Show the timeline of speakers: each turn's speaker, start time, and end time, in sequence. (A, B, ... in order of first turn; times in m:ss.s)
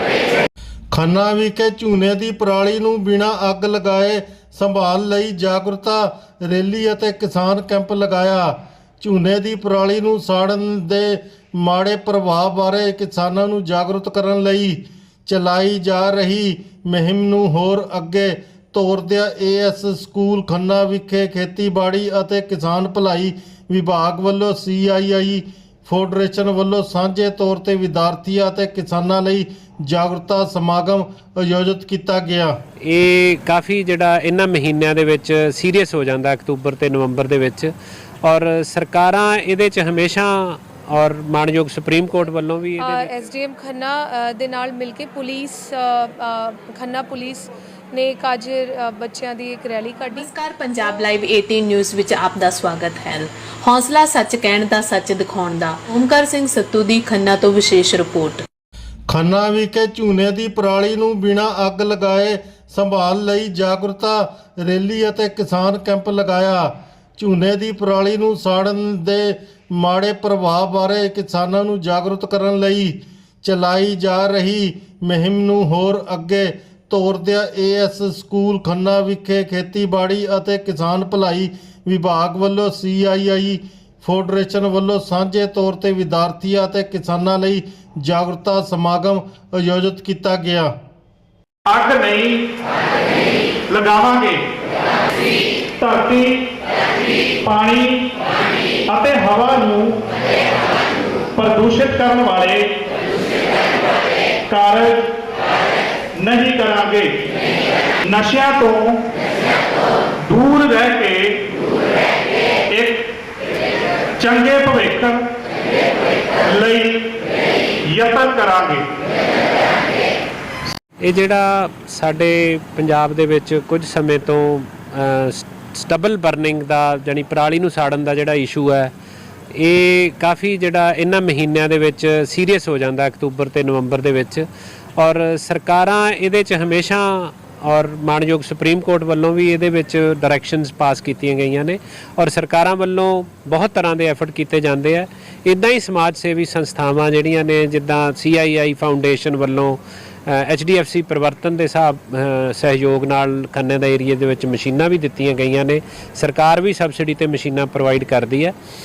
0:00.9-0:32.6 A
0:32.8-0:37.7 B
0:38.2-0:43.1 B
0:42.8-0:50.3 C
0:50.2-0:58.4 D
0:59.1-1:30.7 A
1:31.7-1:32.5 E
1:33.7-1:34.4 E
1:35.8-1:36.5 E
1:37.4-1:38.1 E
1:38.9-1:40.0 E
1:41.4-1:42.7 E
1:44.5-1:45.1 E
1:46.2-1:47.2 E
1:48.0-1:49.0 E
1:50.2-1:51.4 E
1:52.7-1:53.1 E
1:54.2-1:55.2 E
1:56.4-1:57.1 E
1:57.8-1:58.8 E
2:01.0-2:08.9 B
2:09.5-2:14.4 B
2:15.0-2:38.5 B